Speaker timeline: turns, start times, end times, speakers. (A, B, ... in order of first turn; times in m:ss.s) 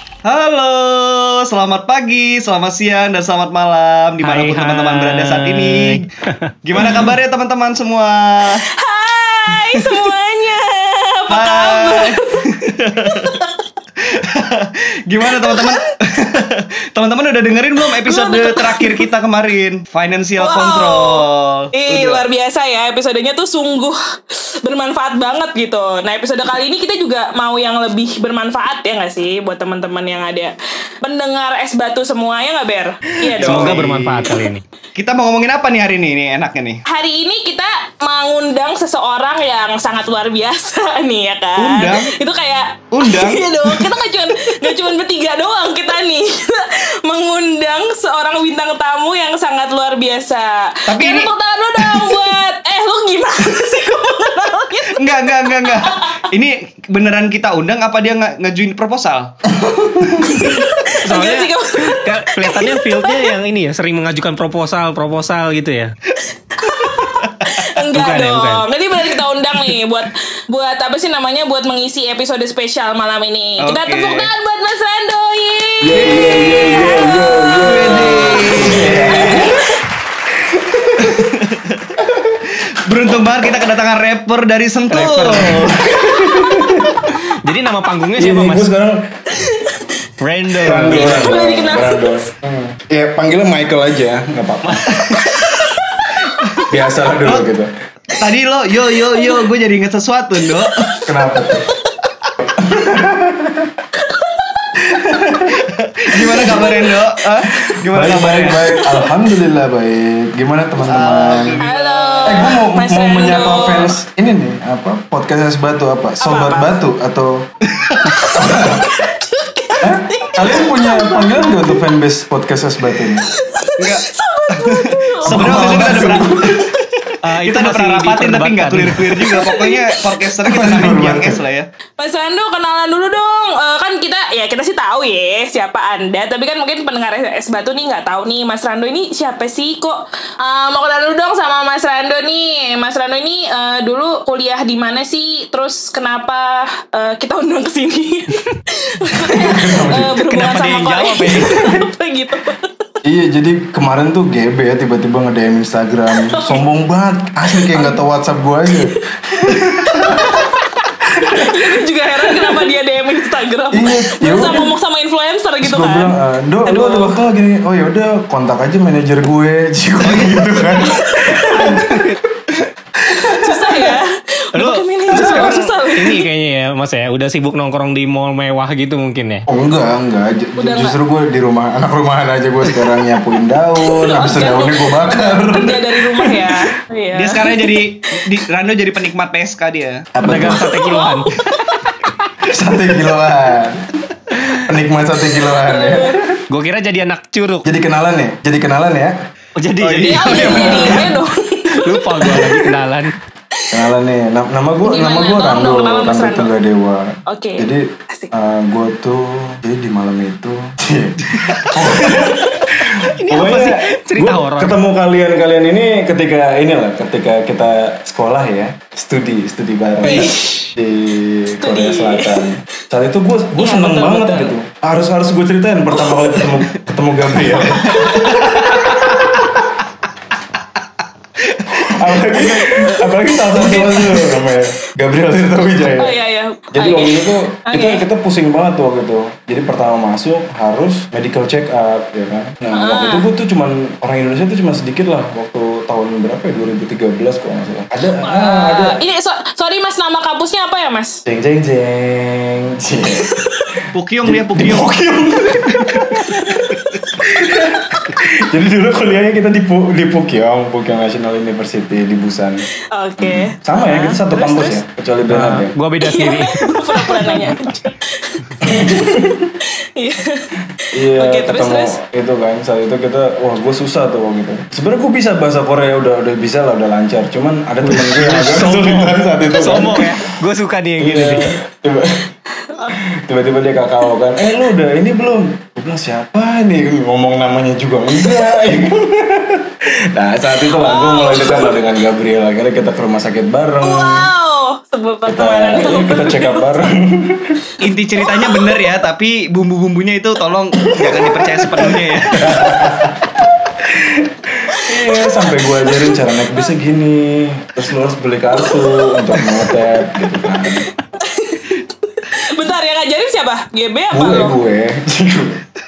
0:00.2-0:06.1 A
0:04.2-0:07.1 B
0:06.6-0:08.6 A
0:08.7-0:12.5 C
0:09.5-0:10.0 A
0:11.3-0:13.4 A
0:13.0-0:13.6 C
0:14.0-0:22.2 A
0:15.3-0:15.7 C
0:18.0-0:19.1 C
0:20.4-0:21.2 C
0:21.7-0:24.0 C
0:24.6-0:33.8 C
0:33.3-0:36.8 A
0:33.4-0:34.6 B
0:36.9-0:56.3 C
0:41.6-0:42.1 A
0:42.9-0:43.9 A
0:50.9-0:52.3 A
0:54.8-0:59.3 A
0:59.6-1:00.4 D
1:00.1-1:00.6 A
1:00.2-1:03.3 C
1:01.1-1:05.9 B
1:06.5-1:19.8 C
1:06.7-1:07.7 A
1:07.9-1:08.7 B
1:13.6-1:14.3 A
1:15.8-1:19.6 D
1:16.0-1:16.7 A
1:17.6-1:19.6 A
1:20.3-1:21.3 D
1:21.0-1:26.0 A
1:22.0-1:22.4 D
1:24.9-1:25.7 B
1:25.6-1:27.0 D
1:26.0-1:26.8 C
1:27.4-1:28.7 B
1:28.2-1:29.0 D
1:29.3-1:29.9 C
1:30.2-1:31.4 B
1:30.6-1:34.9 D
1:30.7-1:31.1 A
1:31.0-1:32.2 C
1:34.6-1:35.2 B
1:35.2-1:36.6 C
1:36.1-1:36.7 A
1:36.7-1:37.7 D
1:38.1-1:40.8 A
1:39.1-1:39.4 C
1:40.7-1:42.0 C
1:41.1-1:41.7 D
1:42.4-1:43.7 D
1:44.0-1:44.7 C
1:44.8-1:45.6 D
1:45.6-1:48.8 A
1:46.2-1:46.7 D
1:46.3-1:46.9 C
1:47.5-1:47.8 C
1:47.9-1:51.6 D
1:48.6-1:49.0 C
1:50.9-1:52.6 A
1:51.6-1:53.9 C
1:52.2-1:57.4 D
1:56.2-1:56.8 C
1:57.7-1:58.2 A
1:58.0-2:01.8 C
1:58.3-1:58.9 D
1:59.8-2:03.3 D
2:03.2-2:05.7 C
2:03.8-2:11.7 A
2:05.3-2:06.7 D
2:05.4-2:06.2 B
2:06.2-2:06.6 C
2:07.2-2:09.5 B
2:09.3-2:10.3 C
2:10.4-2:11.4 D
2:12.0-2:32.8 C
2:29.4-2:30.1 D
2:30.2-2:31.6 B
2:33.0-2:40.5 D
2:36.1-2:36.6 C
2:37.5-2:38.0 C
2:38.7-2:40.6 C
2:41.0-2:41.7 D
2:41.3-2:46.1 C
2:43.7-2:44.7 D
2:45.6-2:51.9 D
2:46.7-2:47.2 C
2:50.0-2:50.5 A
2:50.8-2:51.8 C
2:51.5-2:52.6 A
2:53.1-2:56.2 C
2:54.6-2:55.7 A
2:55.1-2:59.4 B
2:59.5-3:06.5 D
3:00.6-3:01.0 C
3:03.9-3:07.9 C
3:07.1-3:10.1 A
3:10.1-3:10.7 D
3:10.2-3:11.3 B
3:10.7-3:11.9 C
3:12.4-3:13.9 D
3:14.6-3:16.4 D
3:15.6-3:16.2 C
3:16.5-3:17.6 B
3:17.6-3:19.1 D
3:19.6-3:21.1 B
3:19.8-3:21.1 A
3:20.0-3:22.6 C
3:20.3-3:21.0 D
3:21.8-3:23.1 B
3:23.7-3:49.5 D
3:24.8-3:26.5 C
3:27.3-3:28.3 C
3:31.2-3:34.4 A
3:32.0-3:32.6 C
3:34.1-3:34.7 B
3:40.0-3:40.7 C
3:41.6-3:42.4 C
3:43.7-3:44.4 C
3:47.8-3:49.2 A
3:47.9-3:48.5 C
3:51.4-3:52.9 A
3:51.8-3:56.2 D
3:53.5-3:54.3 A
3:56.0-3:58.0 C
3:56.7-4:09.0 D
4:02.7-4:03.3 C
4:08.2-4:11.2 C
4:11.2-4:13.3 D
4:13.2-4:13.8 C
4:13.8-4:22.6 D
4:13.9-4:14.9 A
4:15.7-4:16.0 A
4:16.2-4:17.9 C
4:22.9-4:24.8 C
4:23.2-4:25.8 D
4:25.2-4:27.3 B
4:26.0-4:30.5 C
4:28.6-4:29.5 D
4:30.9-4:40.3 D
4:31.1-4:31.9 C
4:37.8-4:41.6 B
4:41.0-4:42.3 D
4:42.6-4:43.0 C
4:43.0-4:54.3 D
4:50.7-4:51.9 C
4:53.8-4:56.7 C
4:55.2-4:57.6 D
4:57.8-5:03.0 A
4:58.2-4:58.9 C
5:00.9-5:03.2 D
5:03.8-5:10.9 D
5:04.8-5:06.7 C
5:08.5-5:09.8 C
5:11.2-5:14.6 C
5:14.1-5:15.6 D